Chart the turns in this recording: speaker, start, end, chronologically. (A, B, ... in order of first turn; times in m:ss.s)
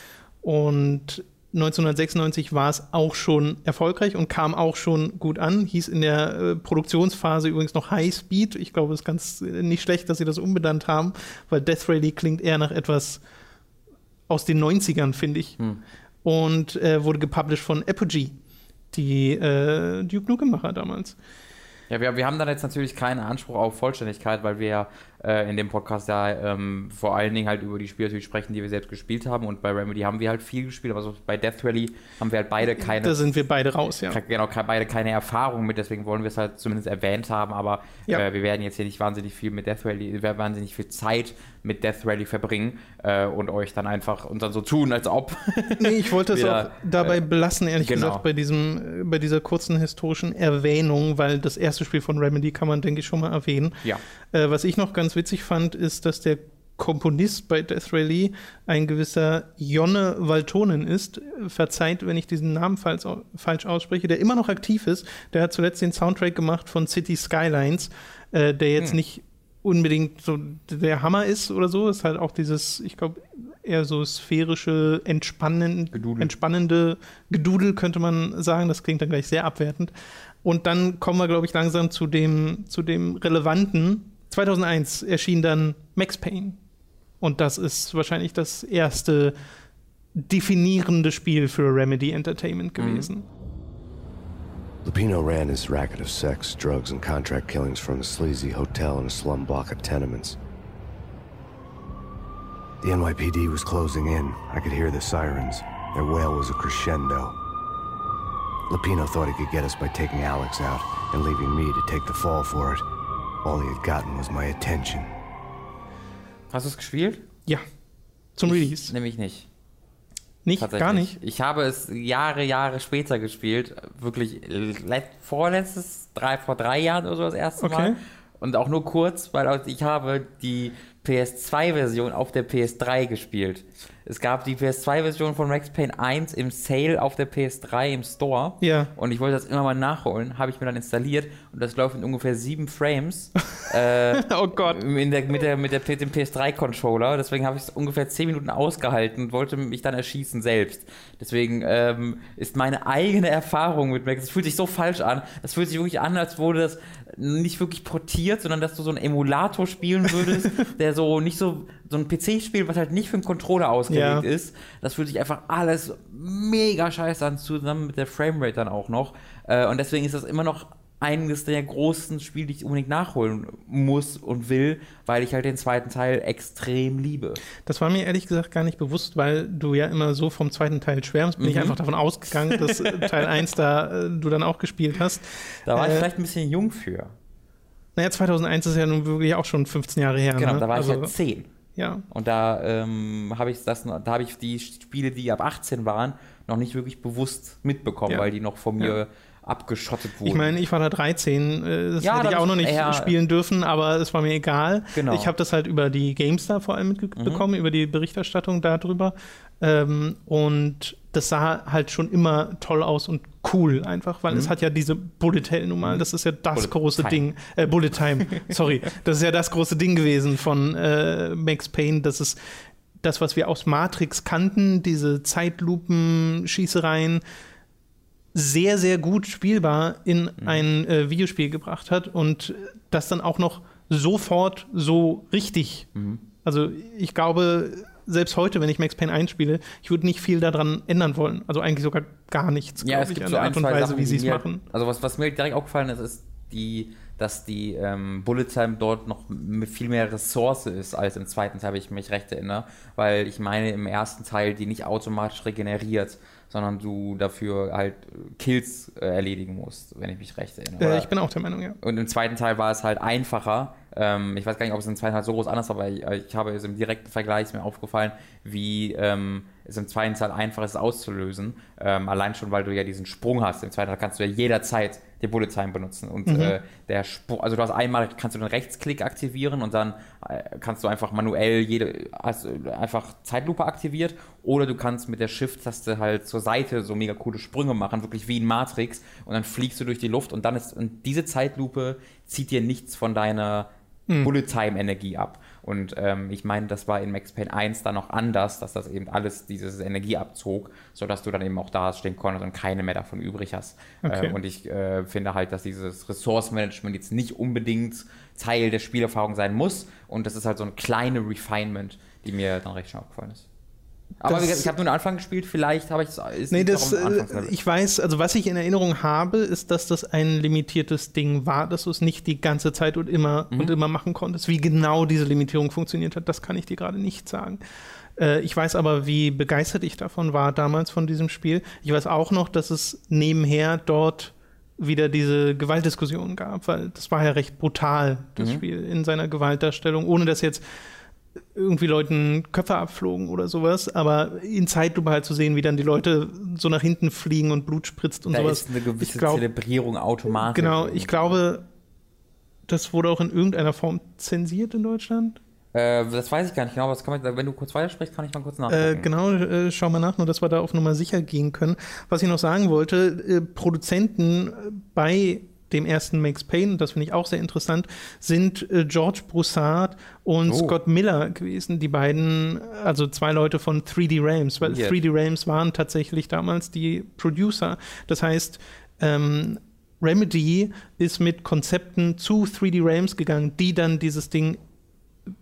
0:00.4-0:13.2 A
0:14.3-0:15.6 A
0:16.2-0:18.4 A
0:18.9-0:21.2 A
0:21.9-0:33.3 B
0:32.7-0:34.2 A
0:34.1-0:47.2 B
0:45.8-0:53.8 A
0:47.8-0:48.2 B
0:54.3-1:19.9 A
1:15.9-1:16.3 B
1:20.4-1:26.6 A
1:27.2-1:29.4 A
1:30.2-1:33.3 A
1:32.8-1:33.1 B
1:34.8-1:40.4 C
1:42.8-1:47.4 C
1:48.7-1:52.8 C
1:53.4-1:55.1 C
1:56.5-1:57.2 B
1:58.4-1:58.9 A
1:58.5-1:59.5 B
2:00.4-2:01.1 A
2:00.6-2:57.4 B
2:07.6-2:08.0 A
2:18.6-2:18.9 A
2:24.1-2:24.8 A
2:43.9-2:44.3 A
2:57.6-3:06.1 A
3:01.4-3:01.8 B
3:02.5-3:03.4 B
3:05.7-3:07.1 B
3:08.0-3:11.1 A
3:10.4-3:11.5 B
3:11.8-3:12.0 A
3:12.1-3:20.6 B
3:20.2-3:42.4 A
3:22.0-3:23.1 B
3:24.9-3:25.3 B
3:27.2-3:27.5 B
3:35.8-3:37.2 B
3:43.0-3:47.2 A
3:48.4-3:55.9 A
3:56.0-3:56.2 B
3:56.4-4:04.6 A
4:02.8-4:21.1 B
4:20.8-4:21.8 A
4:21.8-4:53.7 B
4:36.3-4:36.6 A
4:54.2-5:13.5 B
5:04.0-5:04.4 A
5:14.2-5:17.5 B
5:14.2-5:14.7 A
5:16.5-5:27.6 A
5:28.2-5:40.6 A
5:38.4-5:38.6 B
5:41.6-5:49.4 A
5:48.3-5:51.4 B
5:50.3-5:51.6 A
5:52.7-5:55.4 A
5:55.7-5:59.1 B
5:58.7-6:24.6 A
6:10.5-6:10.8 B
6:14.6-6:15.0 B